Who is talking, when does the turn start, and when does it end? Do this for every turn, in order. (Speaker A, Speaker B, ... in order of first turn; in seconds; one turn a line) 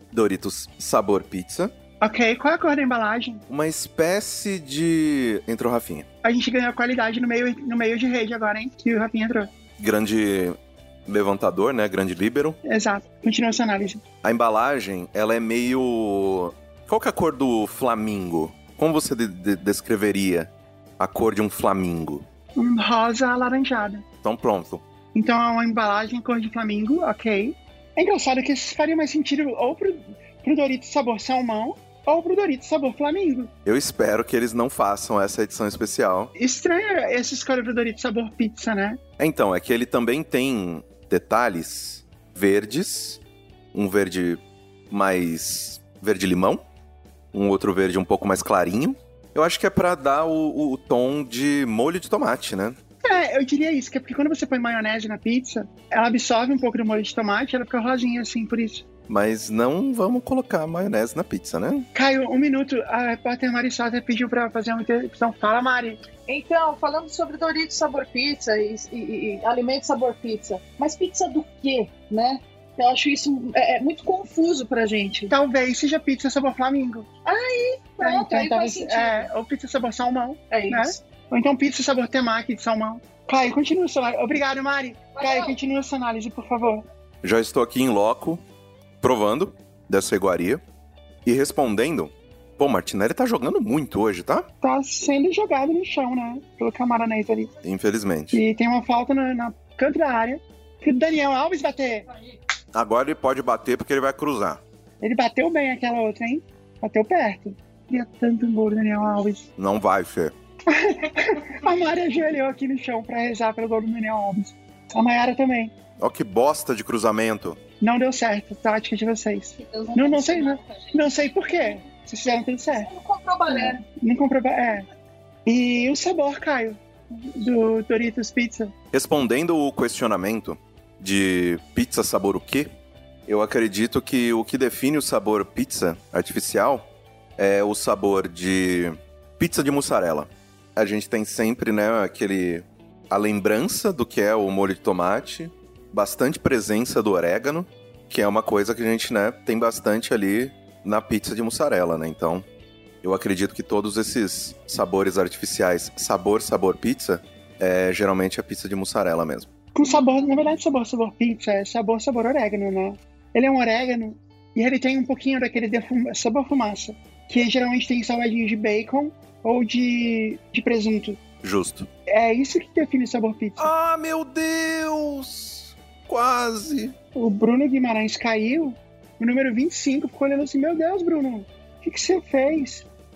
Speaker A: 0.1-1.7
Speaker B: 2.0-3.4
Speaker A: 3.5-6.1
Speaker B: 6.2-9.5
Speaker A: 9.8-12.6
Speaker B: 12.6-14.0
Speaker A: 14.2-22.2
Speaker B: 22.6-24.0
Speaker A: 24.2-24.8
Speaker B: 25.1-33.5
Speaker A: 33.6-36.3
Speaker B: 36.4-39.0
Speaker A: 39.2-43.2
Speaker A: 43.7-46.6
Speaker A: 47.3-52.8
Speaker B: 53.0-58.8
Speaker A: 59.1-61.9
Speaker B: 62.0-66.0
Speaker C: 66.3-75.3
Speaker B: 75.3-77.1
Speaker C: 77.2-79.3
Speaker B: 78.0-86.8
Speaker C: 80.5-81.0
Speaker C: 85.2-85.5
Speaker A: 87.2-88.4
Speaker A: 89.0-90.6
Speaker A: 91.2-94.5
Speaker B: 94.6-97.5
Speaker A: 97.6-98.4
Speaker B: 98.3-102.1
Speaker A: 102.7-104.6
Speaker B: 105.0-109.5
Speaker A: 109.6-110.3
Speaker B: 110.7-115.7
Speaker A: 116.0-117.6
Speaker B: 117.8-122.9
Speaker C: 119.6-120.9
Speaker C: 122.8-123.8
Speaker B: 123.5-124.8
Speaker B: 125.5-128.7
Speaker A: 128.9-132.7
Speaker A: 133.3-152.4
Speaker A: 153.0-159.5
Speaker B: 159.8-171.2
Speaker A: 171.4-171.9
Speaker B: 172.1-173.7
Speaker A: 173.6-176.9
Speaker B: 177.1-182.9